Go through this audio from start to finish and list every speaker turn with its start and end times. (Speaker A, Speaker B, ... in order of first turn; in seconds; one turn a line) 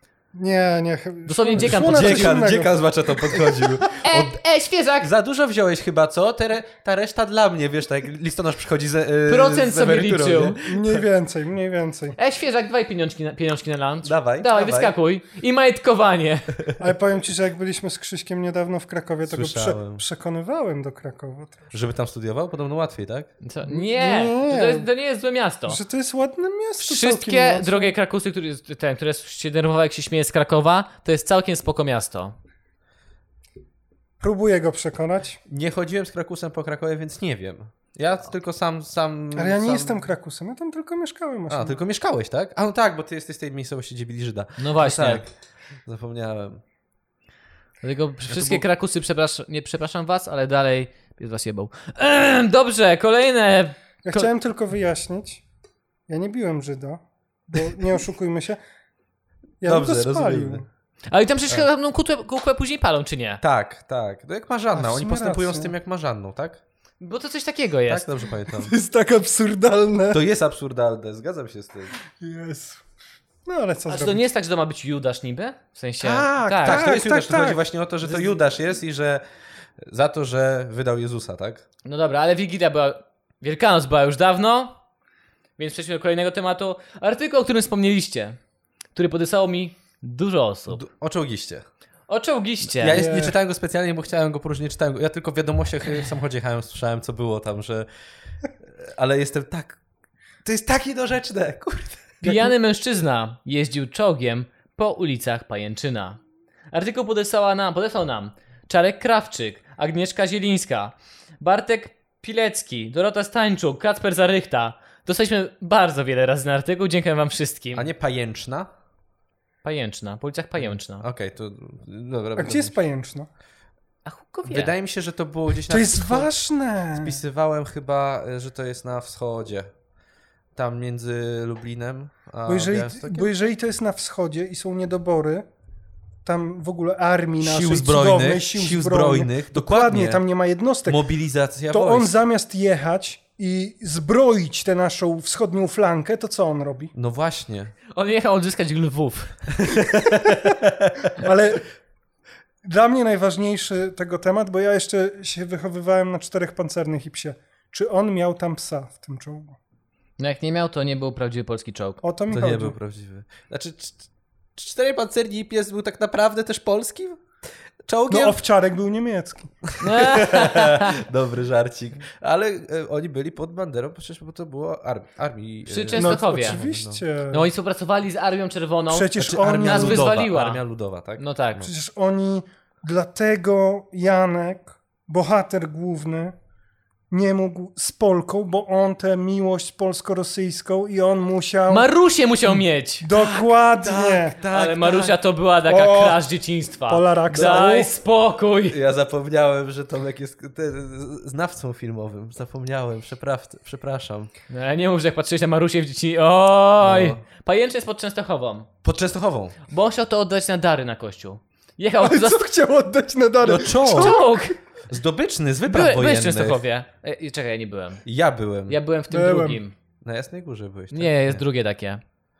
Speaker A: 0.3-3.8
Speaker B: 1.3-2.4
Speaker C: 1.6-4.4
Speaker B: 4.0-5.1
Speaker C: 5.0-11.0
Speaker B: 9.3-10.6
Speaker A: 10.6-12.2
Speaker B: 12.2-16.6
Speaker C: 14.0-15.0
Speaker A: 16.8-21.7
Speaker C: 19.3-20.0
Speaker C: 21.7-23.3
Speaker B: 23.4-25.8
Speaker A: 23.7-24.9
Speaker A: 25.7-27.9
Speaker B: 26.8-32.3
Speaker A: 34.2-35.4
Speaker C: 35.5-40.0
Speaker A: 39.4-41.8
Speaker C: 41.5-45.3
Speaker B: 44.6-45.2
Speaker C: 45.9-46.6
Speaker B: 47.8-54.3
Speaker C: 48.3-48.6
Speaker A: 54.0-55.4
Speaker A: 56.1-58.6
Speaker A: 59.6-60.7
Speaker C: 59.6-60.6
Speaker B: 61.1-63.4
Speaker C: 63.4-66.6
Speaker A: 64.7-65.7
Speaker B: 67.0-68.1
Speaker C: 67.9-68.7
Speaker A: 68.5-70.2
Speaker C: 70.1-71.9
Speaker A: 72.2-72.8
Speaker A: 73.5-74.3
Speaker B: 73.9-76.8
Speaker A: 76.0-77.6
Speaker C: 76.6-79.2
Speaker C: 79.8-81.6
Speaker B: 81.8-84.8
Speaker B: 85.6-88.4
Speaker B: 89.0-90.8
Speaker C: 90.7-91.6
Speaker B: 92.1-93.0
Speaker C: 92.8-97.9
Speaker A: 92.9-93.3
Speaker C: 98.6-99.8
Speaker C: 100.4-102.1
Speaker B: 102.2-106.2
Speaker A: 102.2-102.5
Speaker B: 106.7-117.9
Speaker C: 117.8-118.7
Speaker B: 119.6-121.1
Speaker C: 120.6-122.8
Speaker A: 122.4-123.3
Speaker B: 124.1-124.7
Speaker C: 124.5-126.3
Speaker A: 125.7-127.2
Speaker C: 126.9-129.7
Speaker C: 130.6-133.3
Speaker A: 132.5-135.5
Speaker A: 136.2-141.1
Speaker C: 137.4-140.2
Speaker C: 140.9-142.1
Speaker A: 141.7-146.9
Speaker C: 146.9-147.7
Speaker B: 147.9-149.3
Speaker C: 149.6-151.1
Speaker A: 151.1-151.7
Speaker A: 152.6-159.6
Speaker B: 160.2-162.0
Speaker A: 162.0-162.8
Speaker C: 162.3-167.2
Speaker C: 167.9-168.4
Speaker A: 168.1-169.5
Speaker C: 169.7-177.0
Speaker B: 169.8-171.0
Speaker B: 175.7-176.6
Speaker A: 175.9-177.5
Speaker B: 177.3-180.6
Speaker A: 178.9-180.1
Speaker C: 179.2-181.7
Speaker B: 181.2-181.7
Speaker A: 181.6-186.3
Speaker A: 187.1-191.9
Speaker B: 191.7-193.1
Speaker A: 193.0-194.4
Speaker C: 193.2-195.2
Speaker B: 194.5-198.8
Speaker A: 195.7-196.2
Speaker A: 196.9-197.9
Speaker C: 198.7-204.3
Speaker B: 204.5-208.7
Speaker C: 206.8-207.2
Speaker C: 208.8-209.6
Speaker B: 209.7-212.4
Speaker A: 212.0-214.5
Speaker C: 213.4-214.2
Speaker B: 213.9-214.6
Speaker C: 214.9-216.6
Speaker B: 215.7-218.0
Speaker C: 218.0-218.8
Speaker B: 218.7-219.7
Speaker A: 219.1-219.6
Speaker C: 220.0-221.4
Speaker B: 220.9-222.0